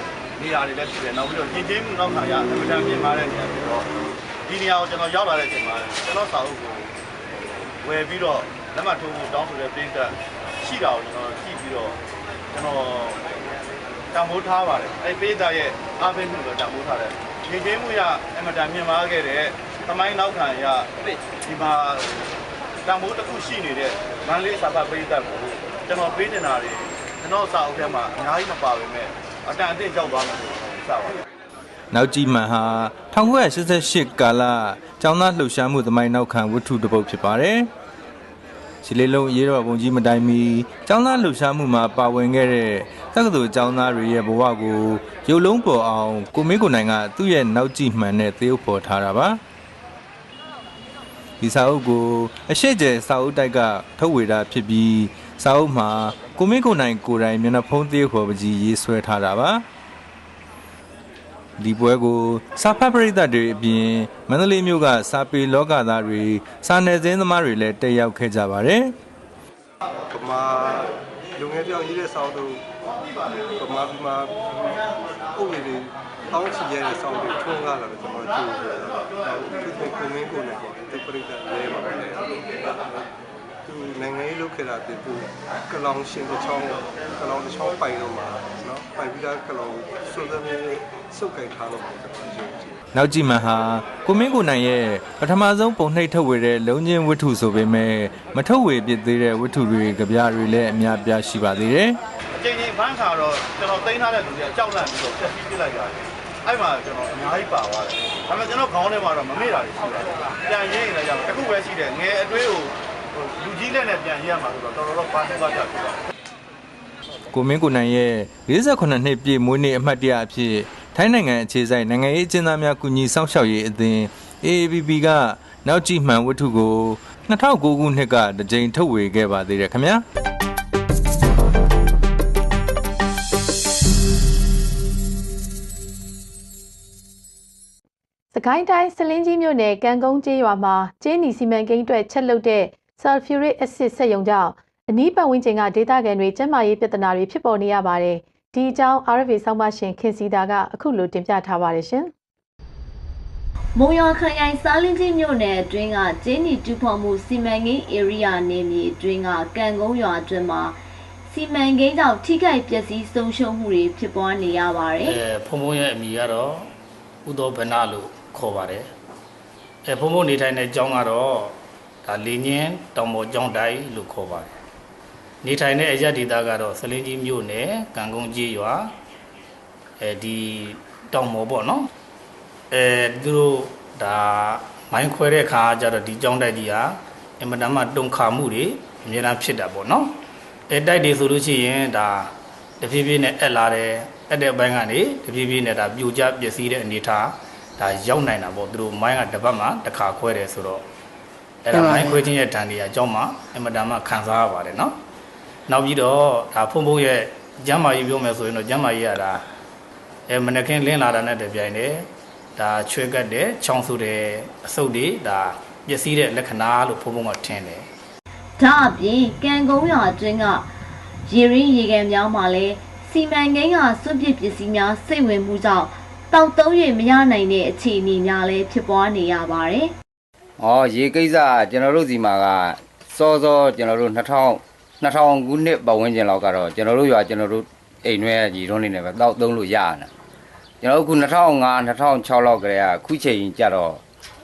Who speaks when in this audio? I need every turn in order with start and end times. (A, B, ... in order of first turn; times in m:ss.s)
0:00.4-0:03.9 A
0:04.5-0:06.9 A
0:07.8-0:12.0 A
0:12.5-0:13.2 A
0:14.1-0:20.9 A
0:21.4-0:22.3 A
0:22.8-0:31.2 A
0:31.9-0:37.7 B
0:38.8-0:49.4 B
0:51.4-0:59.6 B
1:01.6-1:08.9 B
1:10.1-1:12.6 C
1:13.6-1:14.8 C
1:15.3-1:23.1 C
1:23.6-1:32.8 C
1:32.9-1:42.0 B
1:42.4-1:56.0 A
1:57.3-2:10.0 B
2:18.3-2:32.1 D
2:33.8-2:40.8 E
2:41.3-2:45.2 E
2:45.1-2:46.7 F
2:47.2-2:48.9 F
2:49.9-2:54.5 F
2:55.4-2:58.9 F
3:00.0-3:01.9 F
3:02.7-3:10.2 F
3:10.7-3:20.8 F
3:21.6-3:25.0 F
3:25.7-3:29.4 F
3:30.3-3:37.9 F
3:38.6-3:40.7 E
3:41.3-3:49.9 E
3:50.6-4:00.1 G
4:00.8-4:04.0 G